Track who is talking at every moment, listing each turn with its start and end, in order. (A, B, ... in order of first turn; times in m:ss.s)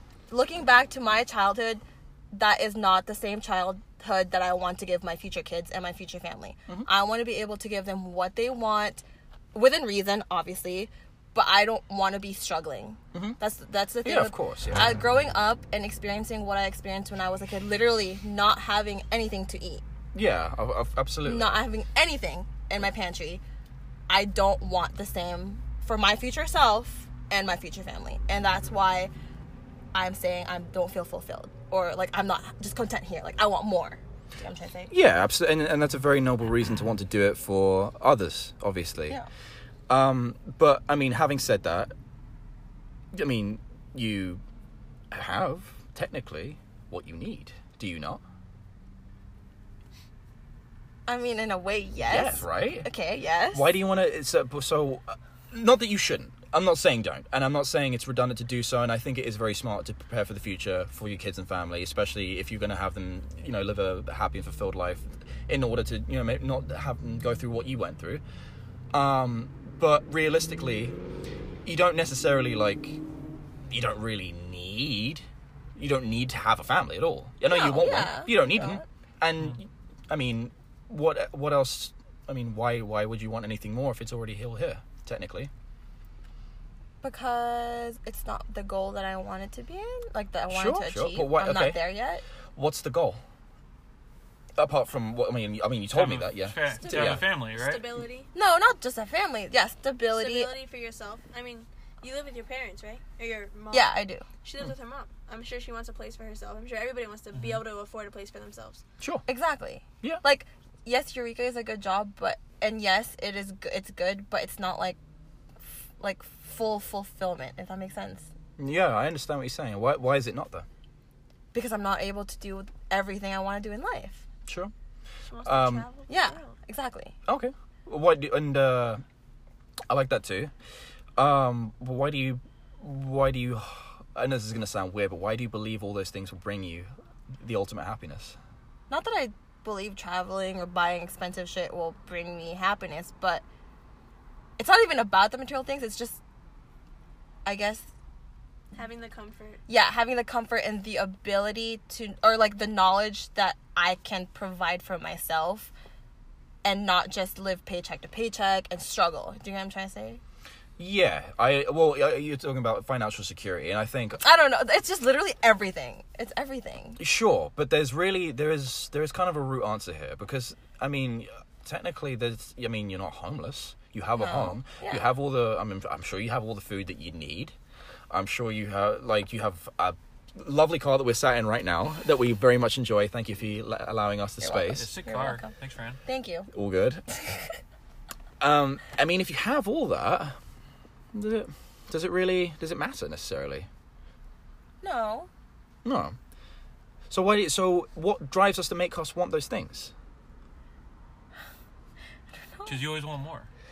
0:00.3-0:01.8 A
0:02.3-0:19.8 A
0:14.0-0:15.0 B
0:20.1-0:21.6 B
0:21.2-0:23.4 A
0:24.1-0:29.1 A
0:29.9-0:34.9 A
0:34.9-0:39.2 B
0:39.9-0:41.9 B
0:43.1-0:44.4 B
0:45.1-0:48.2 B
0:51.1-0:53.7 A
0:52.0-0:52.9 B
0:53.5-1:08.2 B
1:08.9-1:11.0 B
1:11.6-1:13.0 B
1:13.7-1:15.2 B
1:15.8-1:25.5 B
1:17.5-1:18.8 A
1:27.0-1:32.2 A
1:30.5-1:31.8 B
1:32.6-1:33.2 B
1:34.6-1:37.3 B
1:35.9-1:37.9 C
1:36.7-1:38.3 D
1:38.3-1:40.5 A
1:40.1-1:48.8 D
1:43.7-1:44.3 A
1:49.0-1:49.2 B
1:49.3-1:55.0 A
1:56.0-1:58.3 A
1:58.6-2:00.7 B
2:01.5-2:04.3 A
2:04.5-2:04.7 B
2:05.3-2:06.5 D
2:05.4-2:05.9 B
2:06.1-2:07.2 A
2:07.3-2:09.0 B
2:09.9-2:10.5 B
2:11.2-2:18.4 B
2:18.9-2:23.4 A
2:24.6-2:26.2 A
2:27.5-2:27.9 A
2:28.8-2:29.6 D
2:29.7-2:35.7 A
2:36.6-2:40.2 A
2:40.8-2:44.2 B
2:44.2-2:47.0 A
2:47.0-2:57.6 B
2:54.2-2:55.1 A
2:58.1-3:04.9 B
3:04.4-3:05.5 A
3:04.7-3:06.0 C
3:06.0-3:06.5 A
3:06.5-3:07.1 B
3:08.4-3:10.4 B
3:11.1-3:13.7 B
3:14.8-3:15.3 A
3:15.8-3:16.2 B
3:17.1-3:19.9 B
3:22.5-3:22.8 A
3:22.7-3:23.5 C